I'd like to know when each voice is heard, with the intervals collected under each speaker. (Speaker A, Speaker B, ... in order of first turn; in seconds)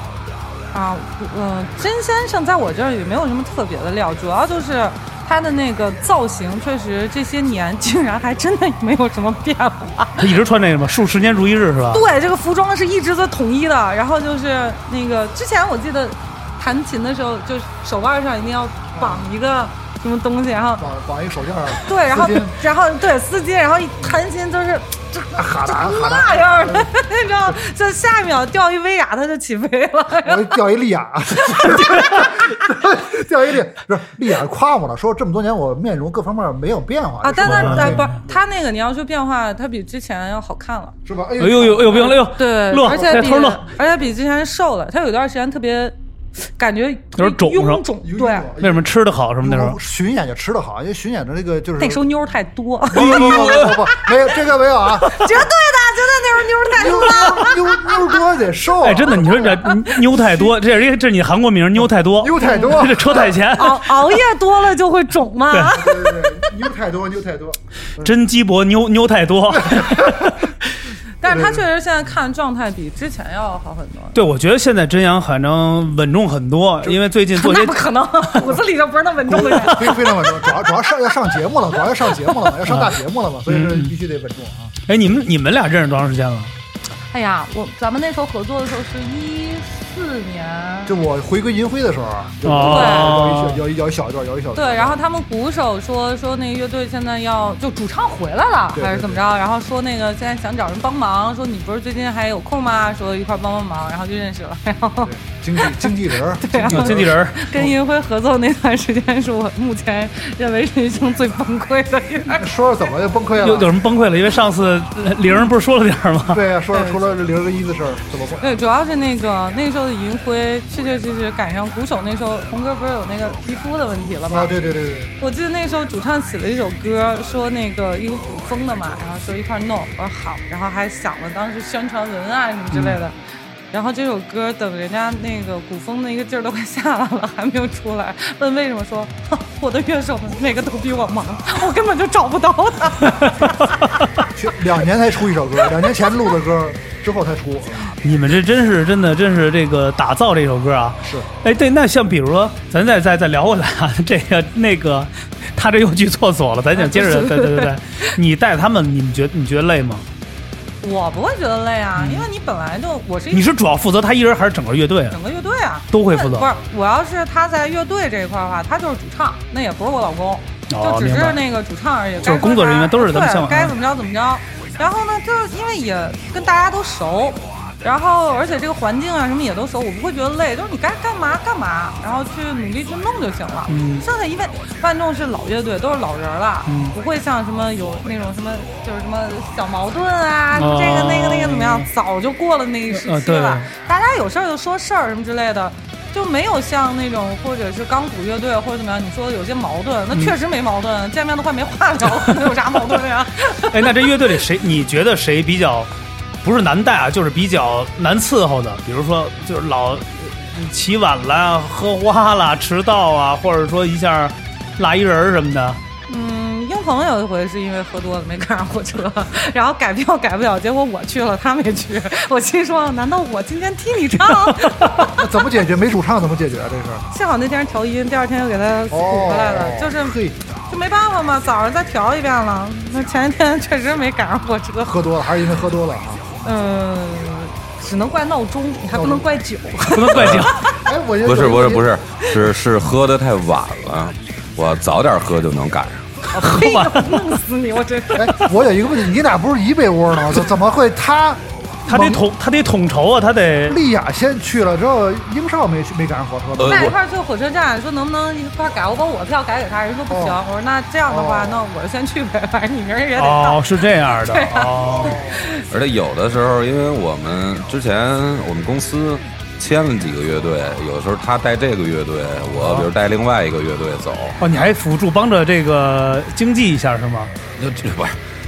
Speaker A: 0.7-10.3, 11.9-20.9, 21.8-30.6, 31.5-32.3, 37.2-40.9, 41.9-48.5, 51.8-54.1, 55.0-58.2, 62.4-66.5, 71.2-74.2, 77.3-80.9, 82.1-82.5, 87.1-90.9, 92.6-93.2, 94.5-112.5, 116.7-117.0, 118.4-124.5, 125.2-133.2, 133.7-143.8, 156.8-157.7, 160.8-163.5, 165.1-204.1, 216.1-225.3, 227.1-230.2, 230.7-235.0, 236.4-240.8, 246.3-248.3, 256.7-265.6
Speaker B: 10.2-12.0, 37.4-38.1, 41.4-43.6, 47.1-47.8, 48.6-49.8, 53.0-53.7, 58.8-64.1, 65.5-65.7, 68.0-70.7, 74.1-78.5, 79.3-79.7, 82.6-83.9, 84.9-86.5, 92.4-93.6, 106.7-107.5, 113.4-116.4, 132.7-133.0, 143.2-144.1, 148.0-160.1, 161.9-162.3, 163.3-165.2, 165.9-166.5, 170.7-171.4, 172.2-173.7, 183.7-184.1, 186.7-186.9, 190.6-191.9, 192.9-193.7, 203.7-205.9, 206.4-215.8, 239.9-240.6, 246.3-247.2, 251.9-253.8, 263.2-265.2, 272.5-272.9, 274.4-277.3
Speaker C: 18.9-19.2, 20.8-22.6, 25.3-26.9, 30.2-38.2, 41.0-42.2, 42.9-43.3, 48.0-48.9, 49.4-52.1, 52.9-55.4, 56.7-59.7, 62.0-63.4, 65.7-68.1, 69.5-70.4, 71.2-71.7, 79.3-84.7, 90.9-95.0, 98.7-99.2, 105.0-107.7, 112.4-113.7, 116.3-118.5, 124.3-125.1, 144.3-147.9, 225.1-227.1, 228.9-230.4, 234.9-236.2, 238.9-239.3, 240.8-241.9, 248.1-252.3, 253.7-256.9, 260.1-260.4, 261.1-261.6, 265.0-265.5
Speaker D: 240.1-240.5, 241.2-246.1, 256.6-256.9, 265.7-274.5, 277.6-278.2